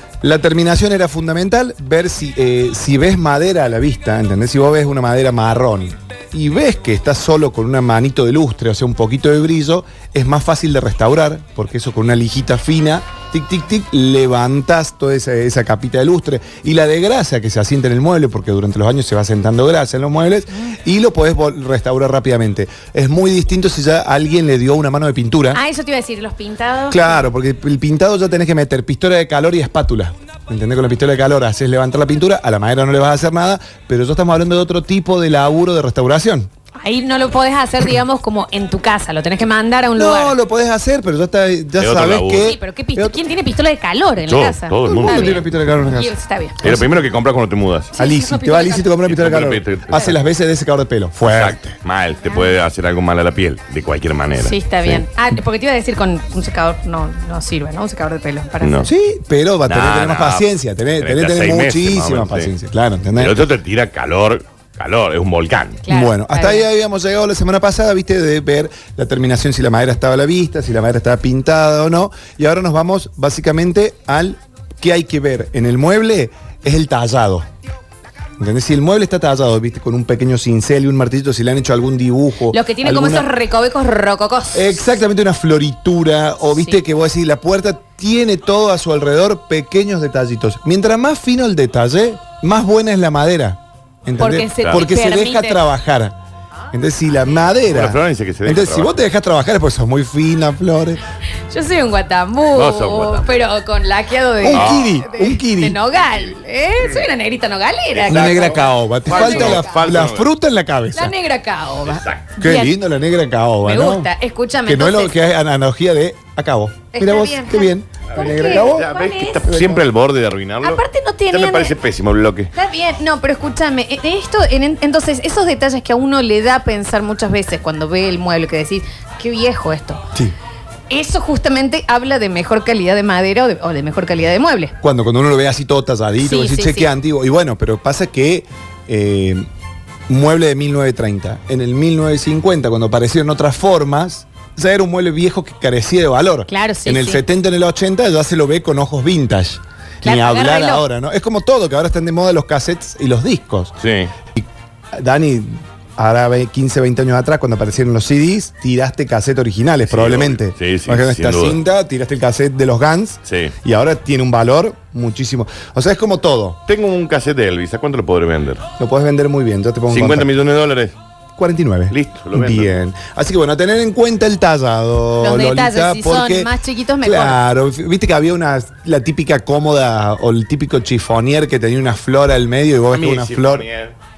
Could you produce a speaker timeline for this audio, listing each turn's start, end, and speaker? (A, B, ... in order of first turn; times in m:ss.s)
0:00.2-0:25.6 A
0:25.5-0:27.3 B
0:26.9-0:36.5 A
0:36.8-0:40.4 B
0:40.0-0:43.2 A
0:41.8-0:42.6 C
0:42.4-0:46.6 B
0:44.3-0:45.4 C
0:44.9-0:46.9 A
0:46.6-0:47.9 C
0:47.9-0:48.9 B
0:48.0-0:51.8 A
0:49.1-0:50.2 C
0:51.2-0:55.0 C
0:52.3-0:52.5 B
0:54.4-0:58.9 B
0:58.6-0:58.9 C
0:58.9-1:03.4 A
0:59.7-1:00.5 C
1:01.0-1:02.5 C
1:03.2-1:05.8 C
1:05.8-1:06.7 B
1:05.9-1:17.5 A
1:18.4-1:23.3 A
1:22.5-1:24.8 B
1:24.5-1:36.2 A
1:26.5-1:26.8 B
1:34.2-1:35.6 B
1:36.7-1:41.0 A
1:37.7-1:39.0 C
1:41.5-1:49.8 B
1:42.5-1:43.3 C
1:44.4-1:45.8 A
1:44.5-1:45.0 C
1:48.0-1:50.3 C
1:48.1-1:51.1 A
1:50.9-1:52.7 B
1:51.8-1:52.3 C
1:52.4-1:54.1 A
1:53.6-1:55.2 B
1:54.6-1:58.9 A
1:56.9-1:59.5 B
1:58.1-2:02.5 C
1:59.4-1:59.8 A
2:00.6-2:01.7 B
2:02.5-2:10.0 B
2:10.9-2:14.8 B
2:14.8-2:19.5 A
2:16.2-2:16.9 B
2:20.1-2:33.8 A
2:26.5-2:27.2 B
2:30.0-2:30.8 B
2:33.8-2:34.1 C
2:34.3-2:46.6 A
2:39.9-2:41.6 C
2:43.3-2:43.5 C
2:46.7-2:48.6 C
2:48.8-2:50.3 A
2:49.9-2:51.0 C
2:51.4-2:56.5 A
2:51.9-2:52.8 C
2:55.2-2:57.4 B
2:57.0-3:03.7 A
3:02.9-3:04.0 C